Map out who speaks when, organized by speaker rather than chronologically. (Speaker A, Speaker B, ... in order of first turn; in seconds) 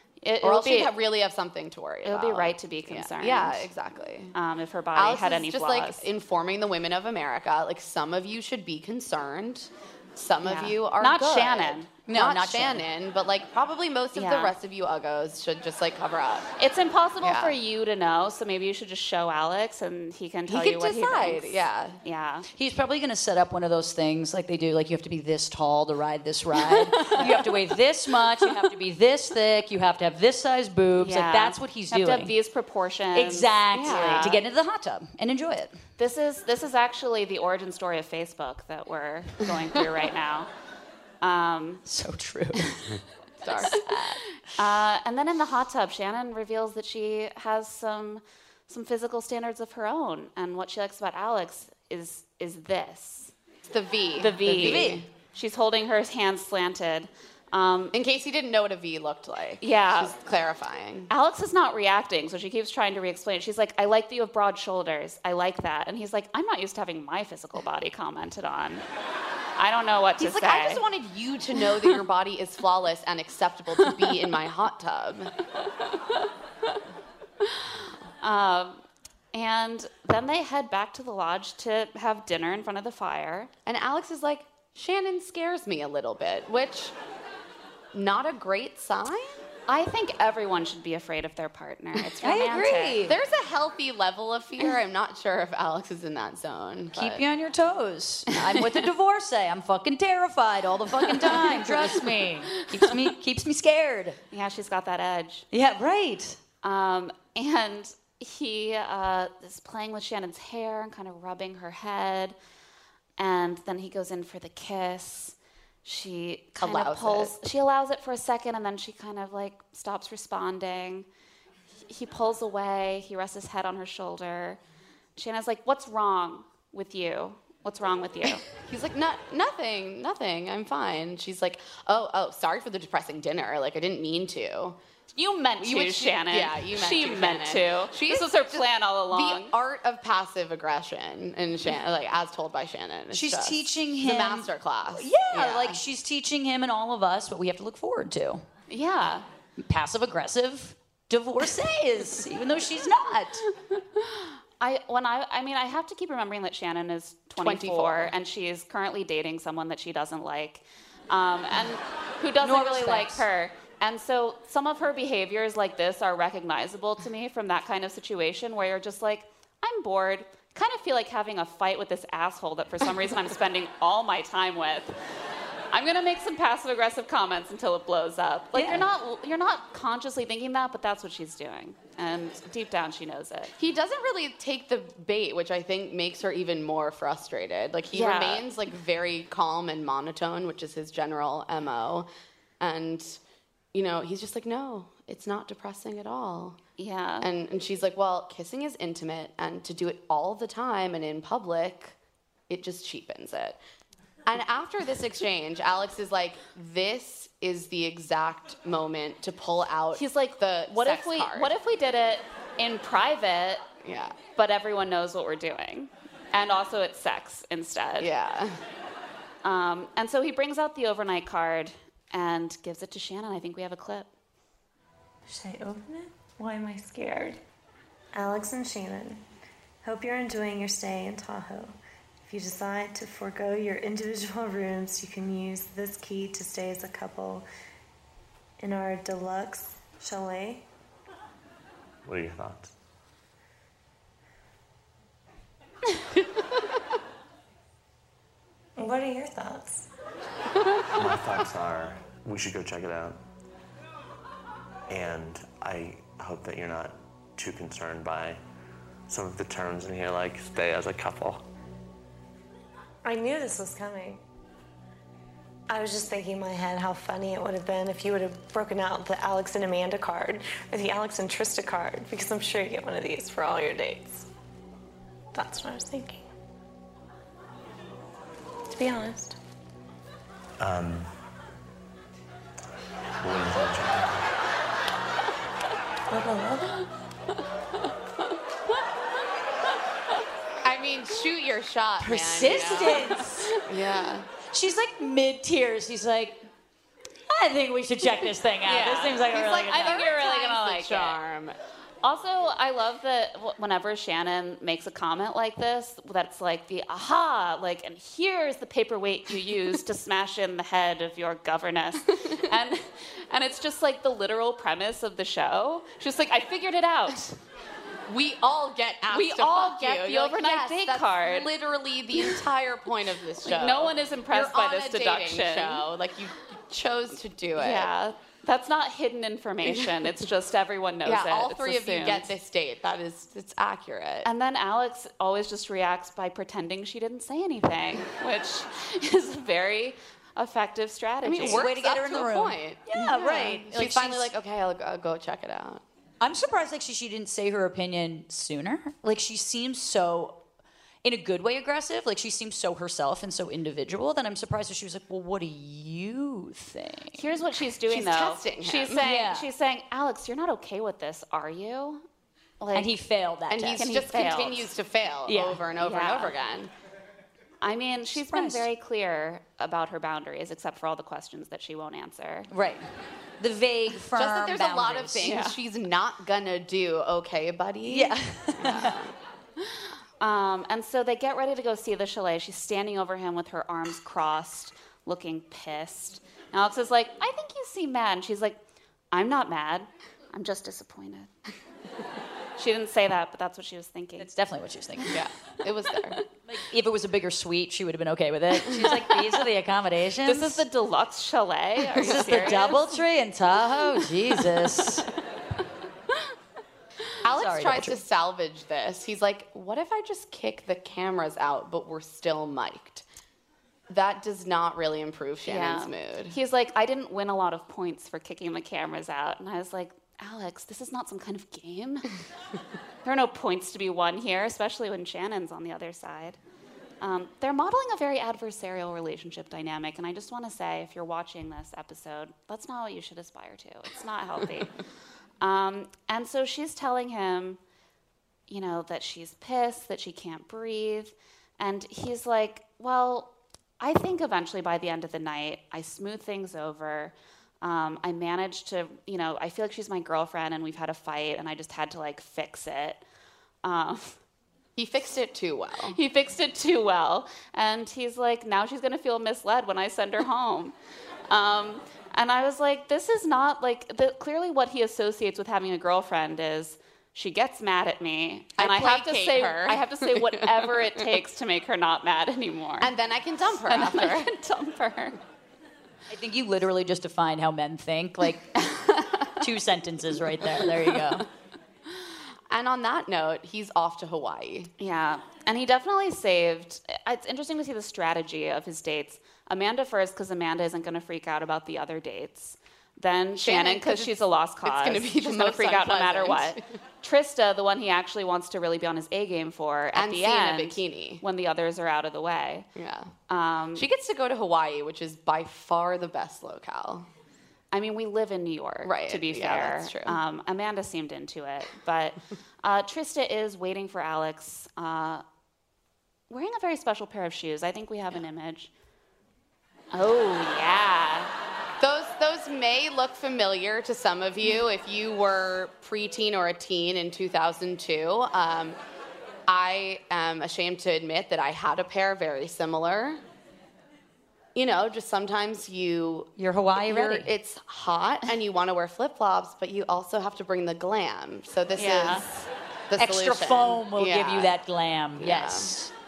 Speaker A: 0.2-0.9, 2.0-3.7, 4.3-6.1, 10.4-11.9, 14.2-14.6, 16.6-22.5, 31.0-34.4, 36.0-40.5, 41.2-41.8, 44.5-53.3, 54.2-57.9, 59.6-60.1, 61.1-68.8, 69.6-70.8, 78.2-78.8, 79.3-83.5, 89.7-93.0, 101.4-101.9, 104.3-105.5, 106.6-112.4, 113.2-121.1, 121.9-124.6, 125.2-128.4, 135.2-139.5, 148.7-149.3, 154.0-174.9, 175.7-183.5, 187.9-188.4, 196.8-197.3, 209.9-213.7, 214.4-218.1, 219.4-224.1, 298.7-301.2, 302.0-317.4, 319.1-321.5, 323.4-325.9, 327.6-332.3, 334.2-341.6, 357.1-362.1, 362.6-362.9, 363.8-364.7, 365.8-366.4, 367.6-372.5, 375.2-375.6, 379.8-388.6, 389.1-391.3, 392.6-394.3, 400.2-403.0, 415.5-422.1, 423.0-426.4, 427.0-434.7, 435.4-437.6, 438.5-453.0, 453.6-454.1, 455.9-460.8, 461.3-472.9, 473.6-475.2, 484.8-502.7, 503.3-503.9, 507.7-515.2, 516.3-518.7, 519.9-521.3, 541.8-542.3
Speaker B: 0.4-4.3, 5.0-16.5, 17.2-17.6, 20.5-22.0, 33.8-34.4, 43.4-43.8, 53.7-55.1, 57.9-61.1, 70.2-75.3, 83.7-86.9, 87.9-89.4, 93.1-97.2, 116.6-117.3, 128.6-134.8, 135.6-145.8, 157.4-158.1, 183.6-192.1, 192.6-193.2, 193.7-196.6, 197.2-202.0, 202.5-203.6, 204.3-211.5, 213.8-214.2, 218.0-218.6, 290.6-294.3, 298.7-301.6, 318.1-327.9, 329.6-329.9, 331.1-334.3, 341.2-345.8, 357.9-359.1, 363.5-366.7, 374.1-379.1, 395.1-396.2, 407.2-413.1, 413.9-416.4, 454.8-456.0, 468.6-471.0, 472.8-474.3, 482.5-484.7, 493.4-494.1, 494.6-496.6, 499.9-501.2, 502.8-503.1, 503.8-507.1, 508.8-510.2, 521.8-528.8, 529.5-533.2, 534.5-536.3, 536.8-544.5, 545.2-545.7
Speaker C: 12.1-12.8, 22.6-32.3, 33.1-35.8, 41.9-42.8, 43.6-44.1, 54.6-55.0, 92.2-93.2, 97.0-104.2, 105.5-106.4, 143.1-148.4, 149.6-153.4, 162.4-163.2, 178.6-178.8, 292.0-293.5, 294.5-296.4, 297.3-300.1, 341.4-344.3, 346.2-350.4, 351.0-357.2, 359.0-359.5, 362.8-363.9, 365.3-365.6, 368.2-368.7, 372.5-372.9, 373.4-375.3, 377.9-378.9, 394.2-395.1, 396.5-400.6, 402.0-405.1, 407.3-408.0, 476.1-478.5, 479.4-481.3, 536.4-537.3, 543.0-545.9
Speaker D: 225.3-227.4, 228.2-229.2, 229.8-231.7, 232.3-237.5, 238.6-240.7, 248.8-249.9, 263.1-264.2, 265.7-274.3, 275.4-276.2, 278.8-279.4, 286.1-286.7
Speaker E: 242.1-242.7, 250.9-253.2, 254.9-258.4, 259.1-261.4, 280.6-281.1, 283.2-284.2